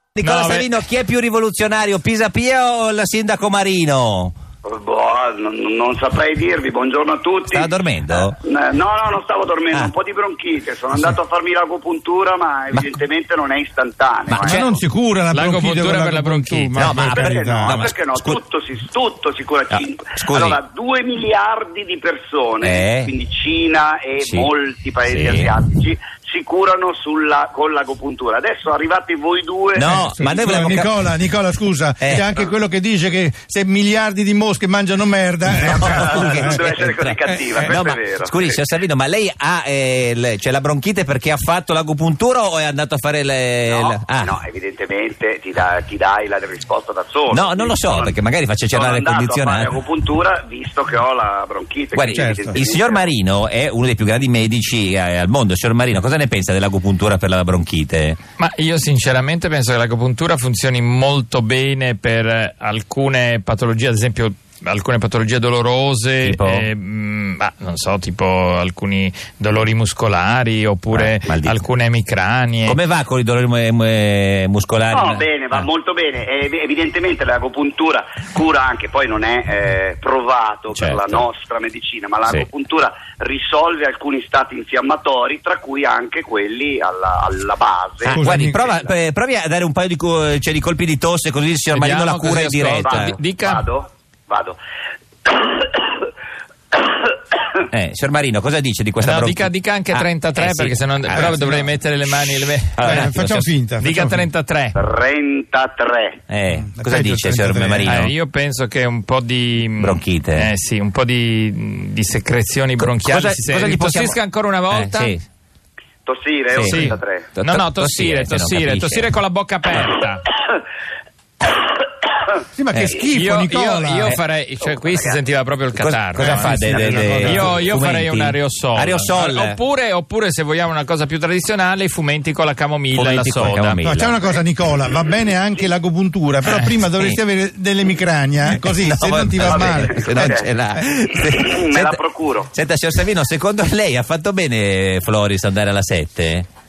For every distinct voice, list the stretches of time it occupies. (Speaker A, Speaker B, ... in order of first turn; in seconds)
Speaker A: 0.2-4.3, 7.5-8.4, 14.3-14.7, 16.8-18.4, 19.7-20.6, 22.6-23.1, 24.2-24.5, 25.1-25.5, 29.7-31.0, 32.0-32.3, 35.6-44.3, 47.3-49.7, 51.9-58.2, 66.2-66.7, 70.9-71.6, 72.7-75.7, 80.7-81.2, 88.0-93.2, 97.7-103.5, 106.3-108.1, 109.8-110.5, 112.8-114.2, 114.7-115.2, 116.5-119.1, 122.7-123.0, 125.8-129.6, 132.9-134.2, 136.9-137.2, 138.5-142.0, 142.5-146.5
Speaker B: 0.2-0.7, 15.3-17.0, 58.4-72.8, 91.7-93.7, 99.0-103.1, 103.8-104.8, 107.8-115.2, 116.6-120.3, 123.1-133.8
Speaker C: 4.6-14.8, 17.0-29.9, 35.6-38.6, 43.7-48.2, 48.7-53.1, 74.9-88.9, 92.8-94.6, 95.2-96.1, 96.7-97.0, 104.8-106.2, 116.0-117.3, 124.6-125.2, 139.4-140.5, 141.2-142.5
Speaker D: 14.4-17.8, 29.9-36.6, 37.3-37.7, 52.1-52.6, 88.1-88.6, 101.2-101.6, 102.8-104.3, 106.5-108.0, 122.5-124.1, 126.2-127.7, 133.8-140.8